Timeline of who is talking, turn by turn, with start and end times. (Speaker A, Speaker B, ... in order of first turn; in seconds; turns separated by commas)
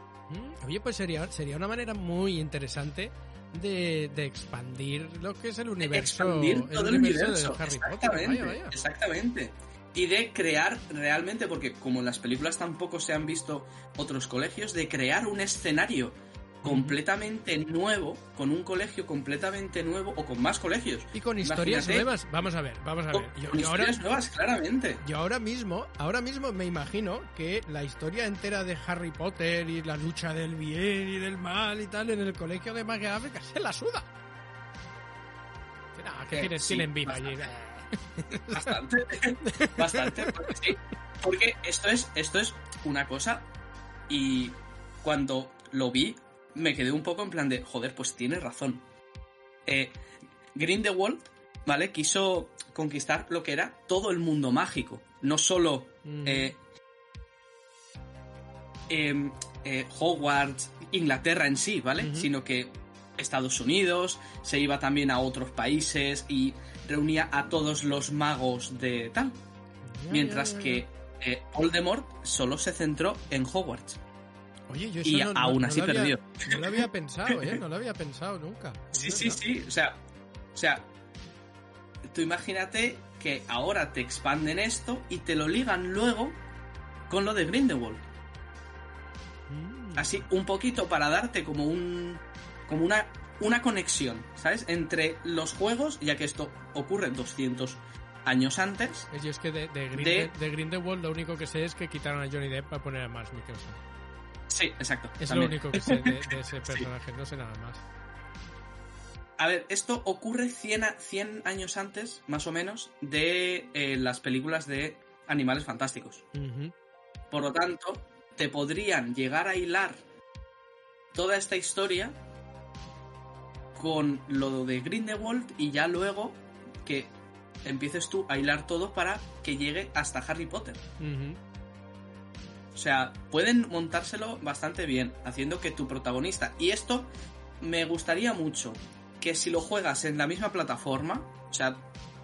Speaker A: 0.3-8.8, Speaker B: 5.8-22.1, Speaker A: 16.6-17.0, Speaker A: 21.1-23.9, Speaker B: 23.1-25.0, Speaker A: 25.0-34.1, Speaker A: 36.0-38.8, Speaker B: 36.3-37.5, Speaker B: 38.5-43.5, Speaker A: 39.4-40.6, Speaker B: 44.1-48.8, Speaker B: 49.7-50.0, Speaker B: 50.5-56.6, Speaker A: 56.0-56.5, Speaker B: 58.9-69.4, Speaker A: 62.0-62.3, Speaker A: 69.9-70.8, Speaker B: 70.1-74.0, Speaker A: 74.7-79.4, Speaker B: 75.0-77.6, Speaker B: 78.9-80.0, Speaker B: 80.5-80.9, Speaker B: 82.1-86.4, Speaker B: 87.1-88.0, Speaker A: 89.5-90.2, Speaker B: 90.0-99.1, Speaker A: 99.1-103.8, Speaker B: 99.9-100.3, Speaker B: 104.5-106.8, Speaker A: 105.2-107.8, Speaker B: 109.4-116.2, Speaker A: 116.3-116.7, Speaker B: 117.3-120.0, Speaker B: 121.1-122.2, Speaker B: 123.8-127.1, Speaker B: 127.7-130.8, Speaker A: 131.0-131.4, Speaker B: 132.7-137.1, Speaker B: 137.6-141.8